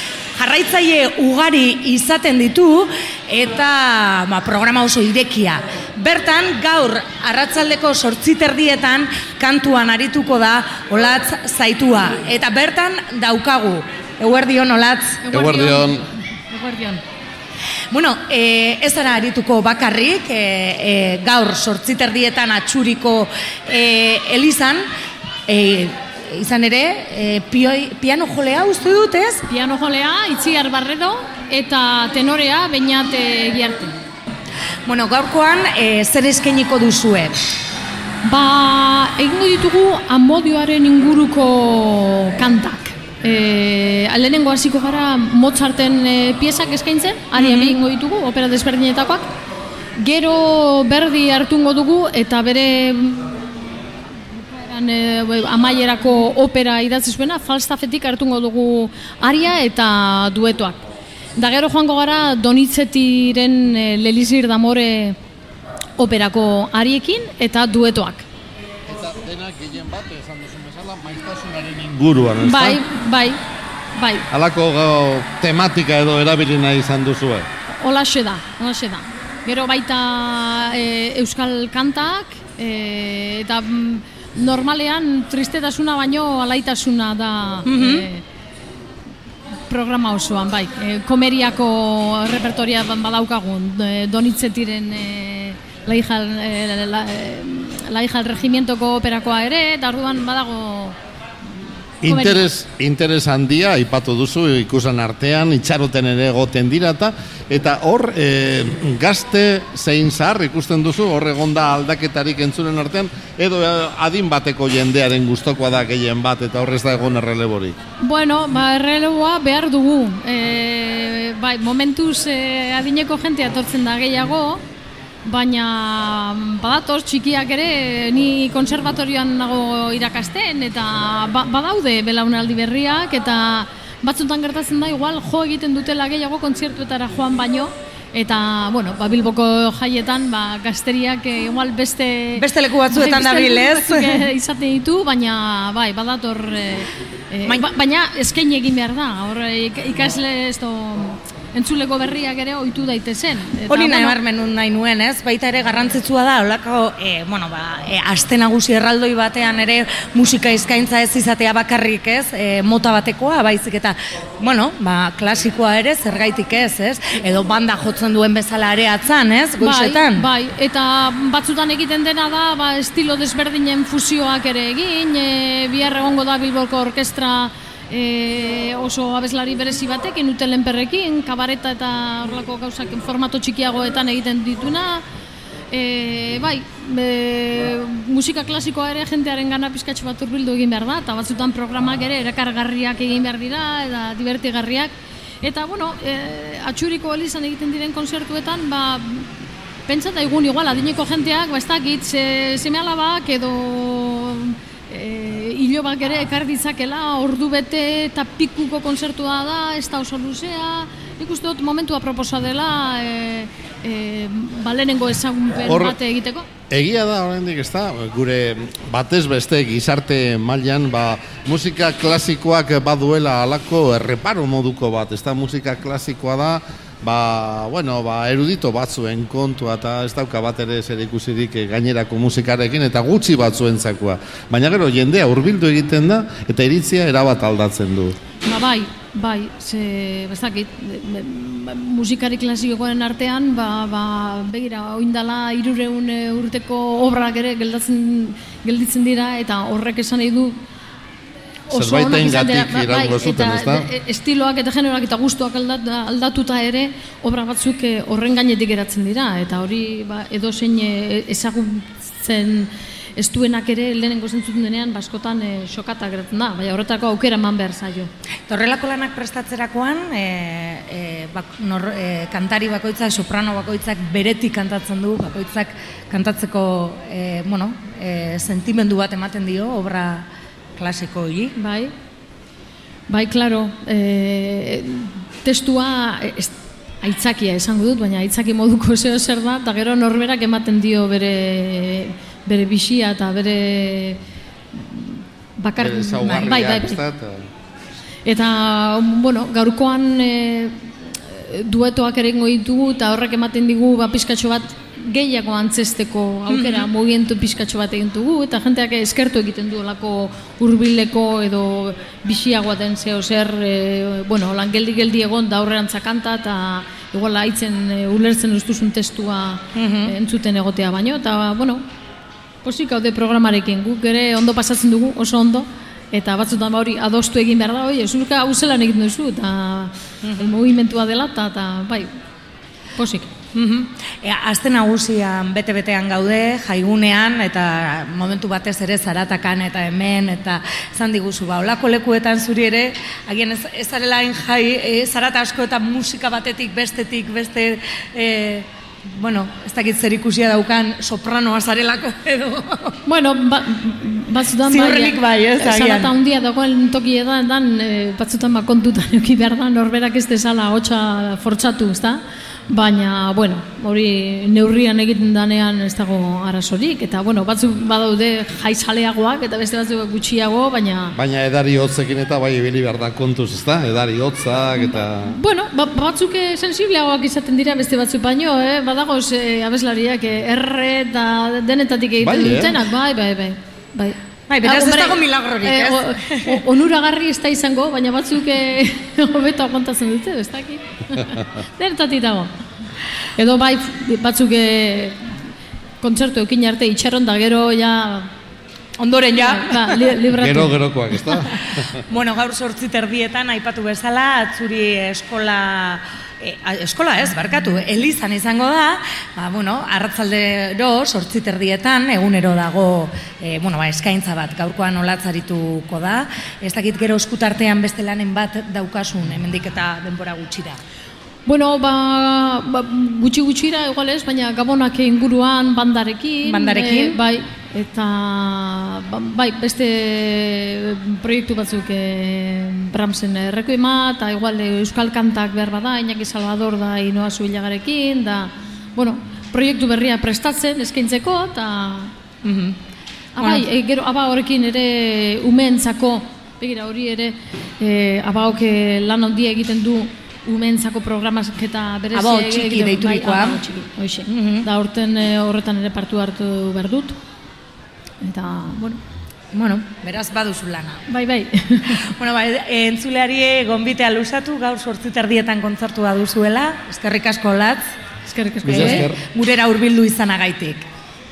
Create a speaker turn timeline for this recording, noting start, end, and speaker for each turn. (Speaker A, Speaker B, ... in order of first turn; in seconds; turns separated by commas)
Speaker A: 0.4-15.3, Speaker B: 15.2-17.0, Speaker C: 15.3-16.0, Speaker A: 17.9-24.8, Speaker A: 25.5-29.4, Speaker B: 29.5-33.9, Speaker A: 34.9-37.4, Speaker B: 38.2-49.3, Speaker A: 47.4-47.8, Speaker B: 50.0-53.5, Speaker B: 54.2-60.8, Speaker B: 61.4-65.2, Speaker B: 66.0-68.2, Speaker C: 68.9-72.8, Speaker B: 72.4-73.4, Speaker B: 74.0-74.3, Speaker C: 74.3-77.5, Speaker B: 77.7-88.2, Speaker A: 87.7-88.1, Speaker B: 89.7-101.0, Speaker C: 102.0-117.8, Speaker B: 102.0-102.5, Speaker B: 118.0-124.6, Speaker B: 125.3-154.2, Speaker A: 142.4-144.2, Speaker A: 153.7-170.3, Speaker B: 169.6-185.0, Speaker B: 185.7-194.9, Speaker B: 195.4-199.3, Speaker B: 199.9-216.5, Speaker C: 215.6-216.0, Speaker C: 216.7-238.2, Speaker B: 238.4-250.6, Speaker C: 251.7-253.9, Speaker B: 251.7-268.1, Speaker A: 268.5-281.6, Speaker B: 281.6-281.9, Speaker B: 283.1-294.2, Speaker B: 294.7-297.0, Speaker C: 295.8-297.4, Speaker B: 298.3-321.8, Speaker A: 306.5-306.9, Speaker A: 319.8-320.1, Speaker B: 322.6-332.1, Speaker A: 330.2-330.5, Speaker B: 333.0-333.3, Speaker A: 333.5-353.0, Speaker B: 353.1-371.2, Speaker A: 354.6-356.1, Speaker C: 371.1-375.4, Speaker B: 374.9-392.5, Speaker C: 382.2-382.8, Speaker A: 384.5-386.6, Speaker B: 393.2-395.4, Speaker B: 396.0-398.3, Speaker A: 399.0-400.2, Speaker B: 399.3-401.6, Speaker C: 400.3-401.9, Speaker A: 401.6-420.8, Speaker B: 421.5-442.1, Speaker A: 426.4-427.2, Speaker A: 442.4-442.8, Speaker B: 443.4-457.1, Speaker A: 443.4-443.6, Speaker A: 452.1-453.6, Speaker A: 454.3-454.7, Speaker B: 458.2-459.0, Speaker A: 459.5-461.1, Speaker B: 461.1-462.1, Speaker A: 461.9-467.8, Speaker B: 468.3-469.1, Speaker C: 468.6-469.2, Speaker A: 468.6-470.8